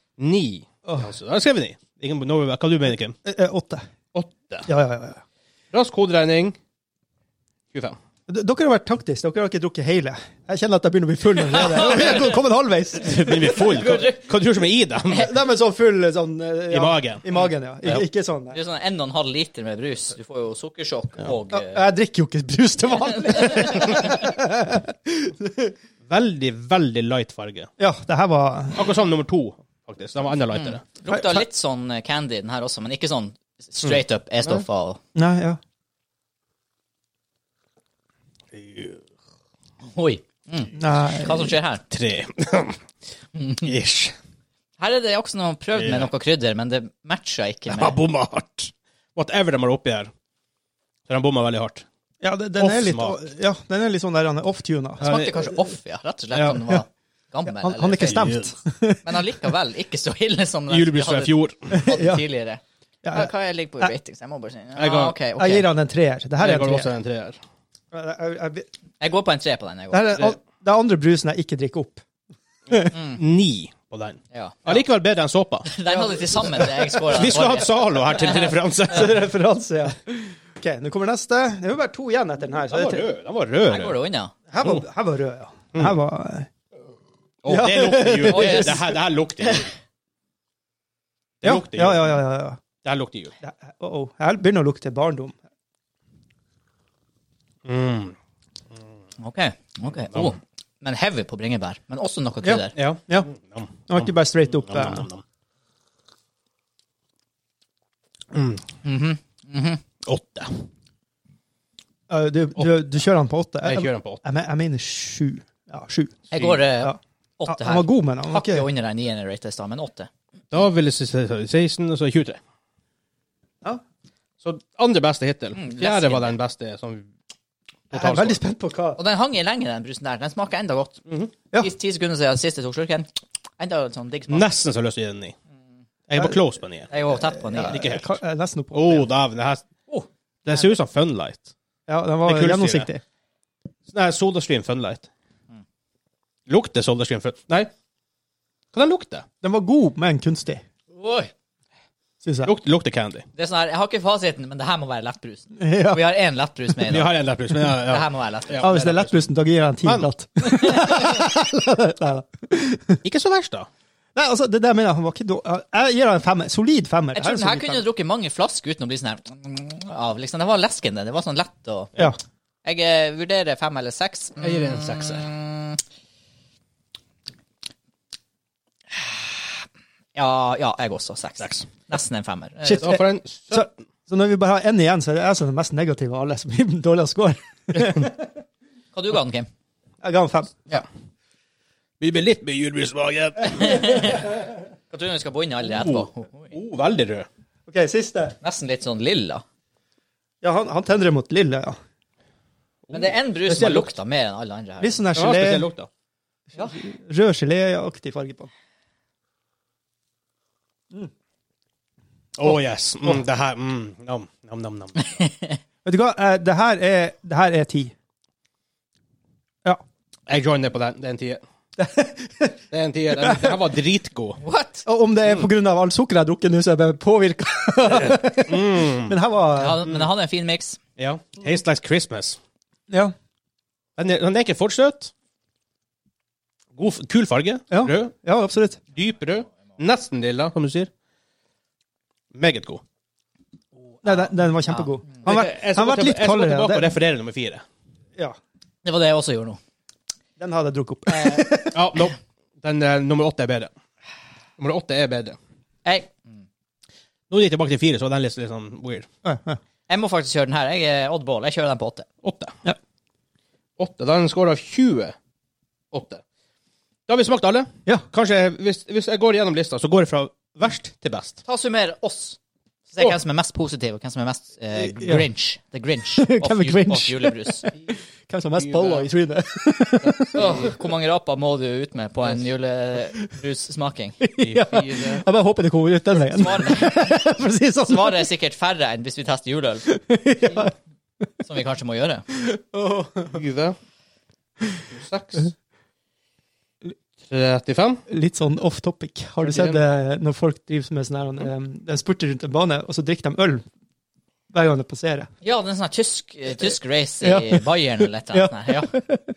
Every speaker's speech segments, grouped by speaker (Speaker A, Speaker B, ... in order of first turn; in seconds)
Speaker A: 0.2-3.1, 4.1-4.7, 5.7-6.6, 11.7-12.2, 13.0-15.3, 16.7-17.2, 26.1-27.7, 28.7-30.8, 33.8-34.6, 38.5-39.0, 41.9-42.8, 43.5-44.1, 45.8-46.1, 47.7-50.1, 51.1-51.8, 52.6-53.2, 55.0-55.5, 58.0-58.5, 60.7-61.8, 64.8-65.2, 66.4-67.4, 72.8-75.7, 77.1-79.2, 82.6-84.0, 87.4-89.7, 91.4-92.2, 92.8-93.3, 97.7-98.1, 102.8-105.2, 108.3-108.6, 110.0-110.5, 113.6-114.2, 116.3-116.6, 120.5-122.4, 124.4-127.1, 127.9-128.4, 131.1-131.3, 134.3-135.3, 136.1-136.9, 137.7-138.2, 138.7-139.6, 140.4-141.4, 142.2-142.9, 143.9-145.1, 146.5-147.7, 148.7-149.2, 152.4-153.2, 156.9-159.2, 159.8-160.1, 163.0-163.7, 174.4-175.3, 181.4-181.7, 182.8-183.7, 192.0-194.1, 195.6-197.3, 202.9-203.2, 205.1-205.9, 212.4-215.1, 220.3-221.4, 222.7-224.4, 225.2-225.5, 227.9-229.2, 231.0-232.4, 234.0-235.1, 236.8-238.1, 238.9-240.9, 242.3-242.8, 245.2-247.6, 251.7-253.7, 254.6-255.4, 257.3-259.1, 262.2-262.5, 263.8-265.1, 265.9-266.2, 267.1-271.4, 278.6-279.1, 280.1-280.7, 284.4-285.2, 293.3-293.7, 294.9-295.5, 297.2-298.0, 299.4-299.8
Speaker B: 0.8-1.1, 3.2-3.8, 4.7-5.2, 8.3-13.8, 15.1-18.6, 21.5-25.7, 27.8-28.9, 31.1-31.4, 35.1-35.6, 40.7-41.6, 52.2-55.1, 56.3-56.8, 57.5-59.0, 61.7-62.2, 63.0-63.9, 65.3-66.9, 67.9-68.7, 69.9-72.0, 75.9-77.3, 78.9-83.1, 84.5-86.5, 87.5-88.9, 91.4-92.6, 93.4-95.3, 102.4-103.3, 103.9-105.1, 112.1-116.2, 116.8-118.7, 127.9-129.0, 137.1-139.1, 141.9-143.0, 149.4-150.6, 152.2-152.5, 155.6-156.0, 158.6-163.0, 164.1-167.8, 182.6-188.3, 190.0-190.7, 197.7-198.3, 200.4-201.7, 203.4-203.9, 204.8-205.7, 206.5-208.5, 215.8-217.9, 221.8-222.6, 223.1-223.6, 224.8-229.9, 237.7-238.8, 244.0-246.9, 250.4-251.9, 259.2-259.6, 274.7-275.3, 276.2-280.7, 284.2-288.3, 289.9-290.7, 292.3-293.4, 298.1-303.6, 304.5-305.3, 307.2-307.6, 308.3-309.2
Speaker C: 11.5-12.3, 13.5-14.2, 18.5-21.8, 23.1-24.3, 30.5-35.0, 39.9-41.9, 43.4-43.7, 44.8-48.0, 55.0-58.3, 59.0-65.7, 69.0-70.3, 72.9-73.2, 74.3-74.8, 75.6-78.5, 83.7-84.3, 88.3-88.8, 99.2-102.7, 108.8-109.8, 116.3-120.1, 125.5-126.4, 129.0-131.0, 131.5-134.5, 136.9-137.8, 150.9-151.3, 153.3-157.1, 157.7-158.8, 167.1-171.9, 172.6-175.8, 178.9-182.9, 188.9-189.5, 193.5-196.5, 198.4-199.4, 202.9-205.1, 215.1-215.6, 224.4-224.8, 229.6-230.8, 244.7-245.2, 248.8-249.6, 251.1-251.5, 255.8-256.1, 259.9-262.1, 271.4-272.4, 272.9-277.7, 280.3-284.2, 286.2-287.2, 287.8-289.9, 291.4-292.2, 305.4-308.9